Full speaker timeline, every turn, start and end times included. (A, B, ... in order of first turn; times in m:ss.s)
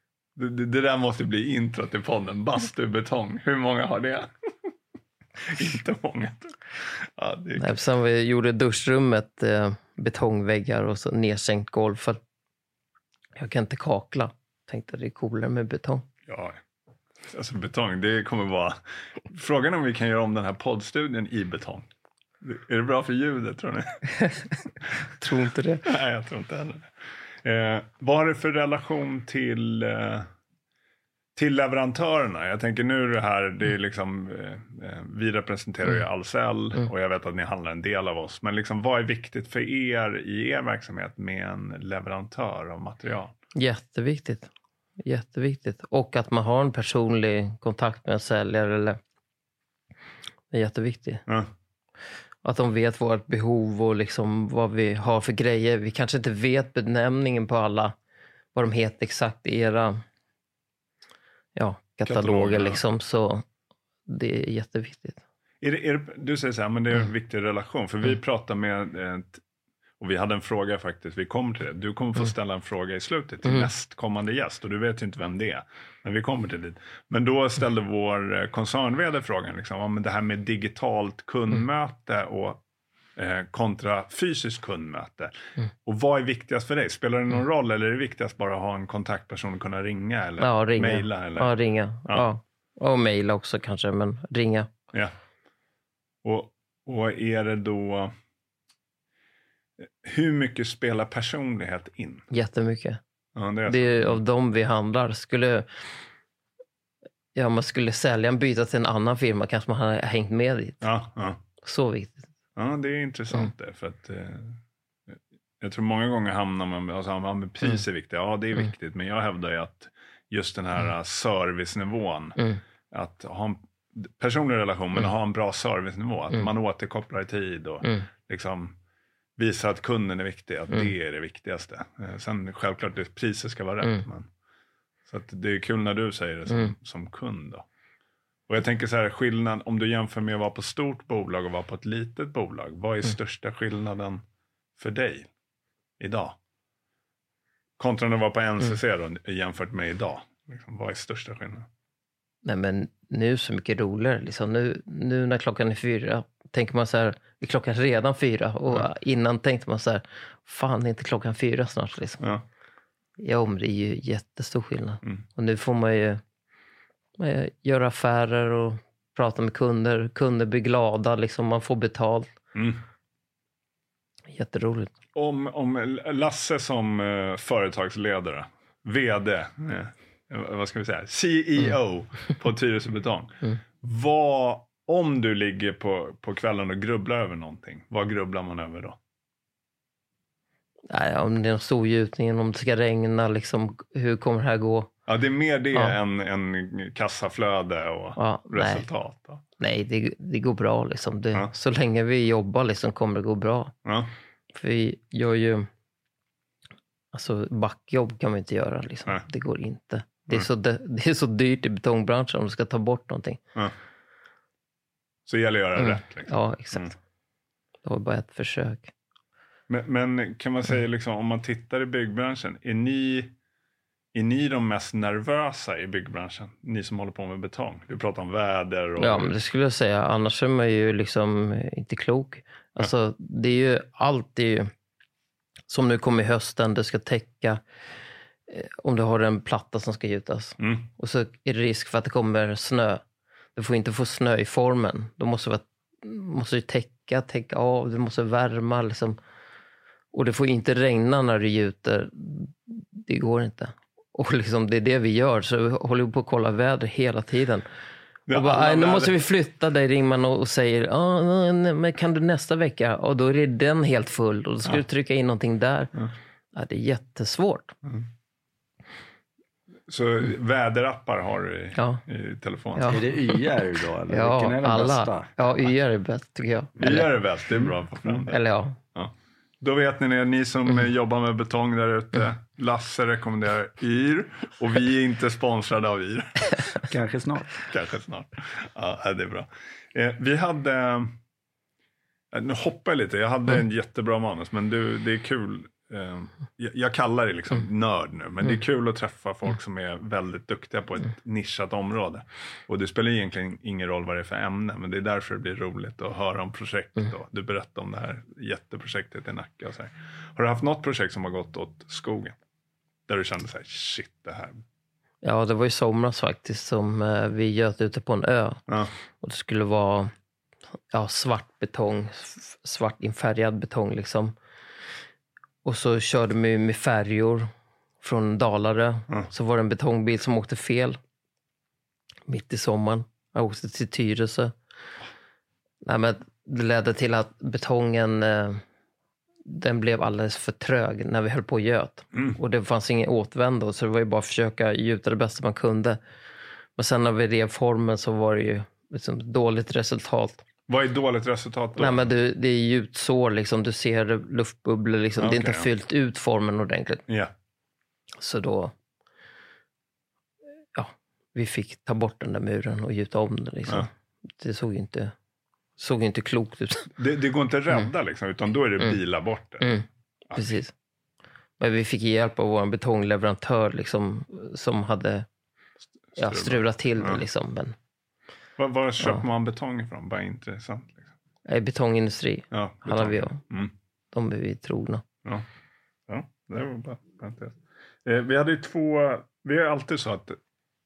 0:00.4-0:04.3 A
0:05.4-0:07.8 A
0:07.6-0:12.2 B
0:13.4-0:16.1 B
0:16.3-0:16.6 A
0:17.3-0:21.9 A
0:22.4-0:24.1 A
0:25.2-0:25.8 B
0:25.8-0:26.9 A
0:27.4-0:30.3 A
0:31.4-0:43.3 A
0:43.5-0:44.5 B
0:45.0-0:49.0 B
0:50.5-0:51.2 B
0:52.4-0:58.0 B
0:58.5-1:00.0 B
1:01.5-1:03.4 B
1:02.0-1:02.8 A
1:04.1-1:05.2 B
1:05.6-1:09.4 A
1:10.0-1:22.6 A
1:23.2-1:25.3 A
1:25.8-1:31.5 A
1:30.4-1:34.7 B
1:36.2-1:38.1 A
1:39.8-1:42.2 A
1:42.3-1:43.0 B
1:43.4-1:44.2 A
1:43.7-1:45.7 B
1:47.3-1:50.8 B
1:50.8-1:51.4 A
1:51.6-1:52.3 B
1:52.6-1:54.6 A
1:55.1-2:02.4 A
2:02.9-2:08.7 A
2:09.4-2:14.3 A
2:15.1-2:17.6 A
2:18.5-2:24.2 A
2:24.8-2:25.3 A
2:26.0-2:26.4 A
2:27.8-2:31.7 A
2:32.4-2:42.2 B
2:43.2-2:46.2 B
2:47.2-2:52.3 B
2:52.5-2:52.8 A
2:54.3-2:54.9 B
2:55.1-3:09.0 A
3:10.9-3:14.9 B
3:15.1-3:19.4 A
3:18.2-3:18.8 B
3:19.6-3:23.7 B
3:23.8-3:24.1 A
3:24.5-3:25.7 B
3:27.1-3:33.4 B
3:35.2-3:36.9 A
3:35.8-3:36.9 B
3:37.8-3:38.9 B
3:39.7-3:43.3 A
3:44.1-3:49.3 A
3:49.0-3:54.7 B
3:55.7-3:57.6 B
3:58.5-4:03.0 B
4:00.6-4:00.9 A
4:03.6-4:09.2 B
4:10.1-4:17.6 B
4:18.3-4:19.2 A
4:18.3-4:25.9 B
4:26.5-4:27.7 B
4:29.9-4:33.0 A
4:31.8-4:32.0 B
4:32.7-4:33.1 B
4:32.9-4:35.3 C
4:34.1-4:37.1 B
4:36.8-4:38.4 A
4:38.0-4:38.8 B
4:38.9-4:46.6 A
4:46.9-4:47.6 C
4:47.6-4:51.2 A
4:52.3-5:12.4 A
5:13.1-5:14.6 A
5:15.2-5:18.6 B
5:19.2-5:20.1 B
5:20.9-5:24.3 B
5:25.6-5:27.5 B
5:28.0-5:31.0 B
5:32.3-5:34.5 B
5:35.8-5:38.6 B
5:39.4-5:46.0 B
5:42.1-5:42.4 A
5:46.8-5:50.4 B
5:50.7-5:52.1 A
5:51.8-5:57.0 B
5:55.2-5:55.7 A
5:58.2-5:58.7 B
6:00.7-6:05.1 B
6:05.8-6:06.9 B
6:07.0-6:09.7 A
6:10.3-6:10.6 A
6:10.4-6:10.7 B
6:11.6-6:15.3 B
6:16.1-6:17.2 A
6:16.2-6:17.8 B
6:18.6-6:21.0 A
6:21.4-6:23.4 B
6:22.5-6:23.7 A
6:24.1-6:25.0 B
6:26.1-6:30.4 A